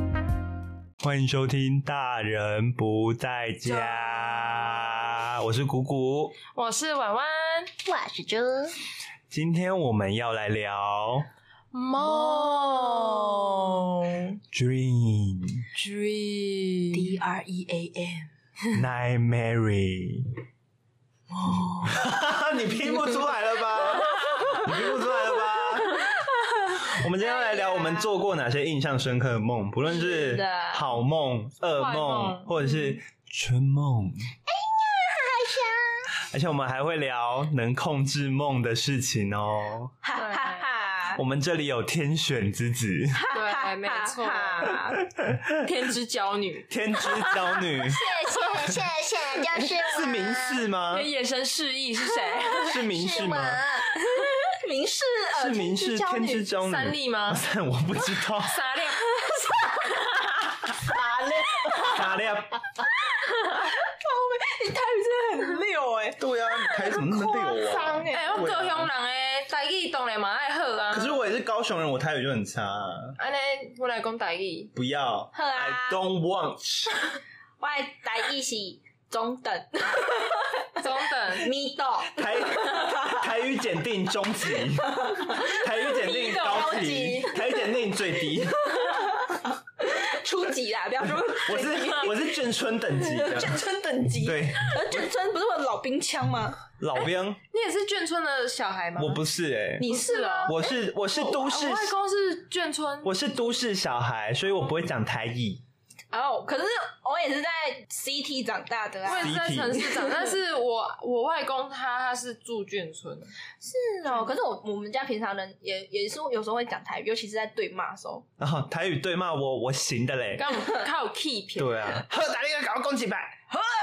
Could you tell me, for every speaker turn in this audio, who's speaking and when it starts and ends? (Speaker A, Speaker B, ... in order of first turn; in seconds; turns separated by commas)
Speaker A: 1.0-6.4, Speaker B: 3.7-5.1, Speaker B: 6.5-7.8, Speaker C: 7.8-8.8, Speaker A: 9.3-11.3, Speaker B: 11.7-14.4, Speaker C: 12.0-13.8, Speaker A: 14.5-15.7, Speaker B: 15.7-17.1, Speaker C: 16.9-18.3, Speaker A: 18.7-20.4, Speaker C: 21.3-22.0, Speaker A: 21.9-26.1, Speaker C: 23.8-28.1, Speaker A: 26.8-34.3, Speaker C: 29.8-30.9, Speaker B: 31.8-32.6, Speaker C: 34.5-36.1, Speaker A: 36.2-40.0, Speaker C: 40.0-41.2, Speaker B: 40.1-40.7, Speaker A: 41.1-43.2, Speaker C: 43.1-45.0, Speaker B: 43.3-44.8, Speaker A: 45.2-45.5, Speaker B: 45.5-46.7, Speaker A: 46.7-48.1, Speaker C: 47.2-50.5, Speaker A: 49.8-51.1, Speaker B: 50.9-52.8, Speaker C: 52.2-56.5, Speaker A: 52.6-53.6, Speaker A: 55.3-58.6, Speaker B: 56.6-57.4, Speaker B: 58.4-59.0, Speaker C: 59.1-62.2, Speaker A: 61.8-62.7, Speaker C: 62.8-68.5, Speaker A: 66.2-68.9, Speaker B: 67.6-71.2, Speaker A: 70.9-73.2, Speaker B: 73.2-74.7, Speaker A: 74.7-77.0, Speaker C: 75.3-76.1, Speaker C: 77.6-83.2, Speaker B: 80.8-81.5, Speaker A: 82.2-89.1, Speaker C: 84.8-87.7, Speaker B: 86.0-86.9, Speaker C: 88.6-92.4, Speaker A: 91.2-93.6, Speaker C: 92.9-96.6, Speaker A: 94.2-95.1, Speaker A: 96.8-97.4, Speaker B: 97.5-99.2, Speaker A: 99.0-99.9, Speaker C: 99.8-100.8, Speaker B: 99.8-103.1, Speaker A: 100.5-101.9, Speaker A: 103.0-105.6, Speaker C: 106.1-110.3, Speaker B: 109.1-113.3, Speaker A: 109.2-109.8, Speaker C: 113.6-118.2, Speaker A: 118.4-120.5, Speaker B: 120.4-122.0, Speaker A: 121.6-123.6